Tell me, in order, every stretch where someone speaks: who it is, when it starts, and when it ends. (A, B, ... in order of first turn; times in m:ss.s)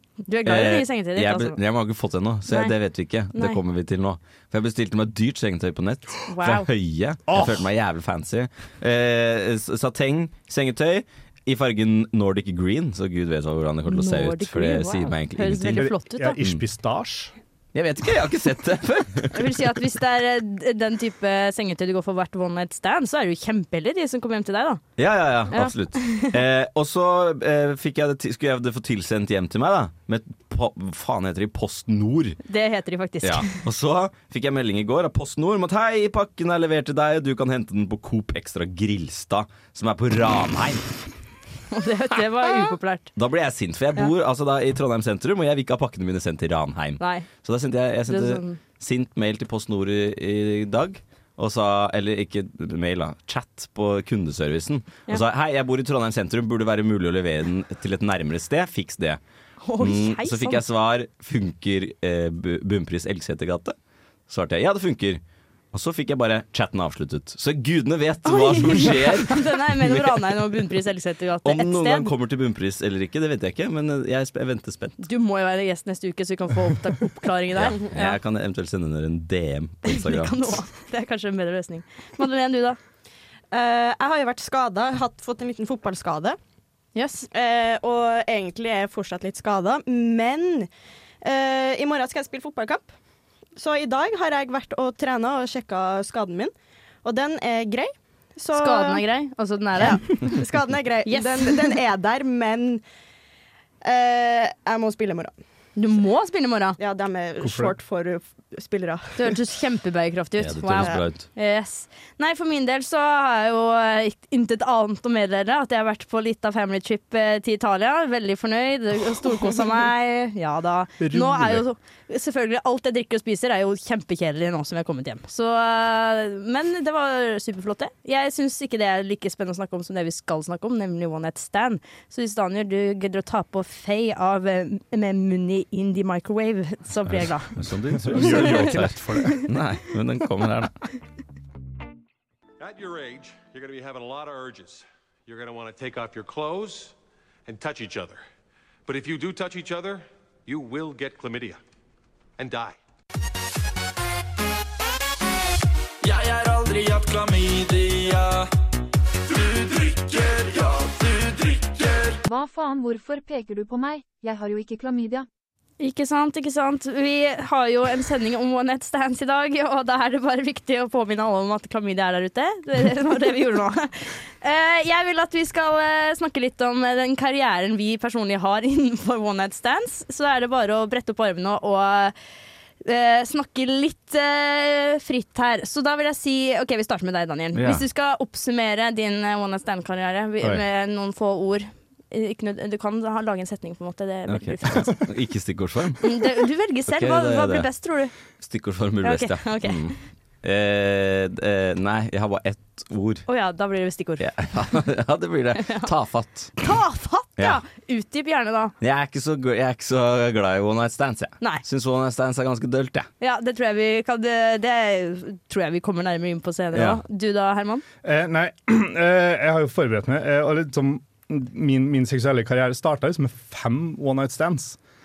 0:00.3-0:01.6 A
0:00.4-0:15.9 B
0:02.5-0:02.7 A
0:03.3-0:03.6 A
0:06.3-0:06.7 A
0:07.3-0:07.6 C
0:13.9-0:16.4 A
0:15.8-0:17.3 C
0:17.7-0:19.7 B
0:19.3-0:24.8 A
0:25.0-0:32.4 B
0:25.5-0:26.3 A
0:32.4-0:33.5 A
0:33.2-0:40.8 B
0:41.7-0:43.1 A
0:43.2-0:59.2 B
0:47.0-0:47.3 A
0:48.1-0:48.6 A
0:59.6-1:00.6 A
0:59.8-1:03.7 B
1:04.3-1:05.2 B
1:05.7-1:10.3 B
1:08.2-1:12.1 A
1:11.4-1:15.0 B
1:15.0-1:18.2 A
1:17.5-1:20.5 B
1:19.8-1:22.8 A
1:23.5-1:26.4 D
1:26.9-1:27.3 A
1:27.3-1:30.7 D
1:31.2-1:32.9 D
1:33.6-1:36.5 D
1:37.0-1:39.0 D
1:38.5-1:40.4 A
1:39.8-1:42.8 D
1:41.0-1:41.7 A
1:43.8-1:45.3 D
1:45.8-1:46.8 A
1:46.8-1:49.3 D
1:47.4-1:47.7 C
1:49.2-2:17.5 A
1:50.4-1:51.2 B
2:01.0-2:01.6 C
2:17.1-2:20.8 B
2:18.0-2:19.5 C
2:18.2-2:19.4 A
2:22.6-2:26.9 E
2:27.4-2:28.2 E
2:28.8-2:31.6 E
2:32.4-2:32.8 E
2:36.0-2:38.5 F
2:39.3-2:42.2 F
2:42.2-2:45.2 G
2:45.8-3:02.1 A
3:02.8-3:15.0 A
3:07.5-3:07.8 B
3:14.3-3:17.7 B
3:16.0-3:18.1 A
3:18.4-3:23.2 B
3:19.0-3:19.9 A
3:23.3-3:24.2 A
3:24.2-3:26.5 B
3:25.6-3:25.9 A
3:26.6-3:28.7 A
3:28.8-3:33.1 B
3:33.2-3:37.8 A
3:36.7-3:37.0 B
3:38.0-3:44.8 C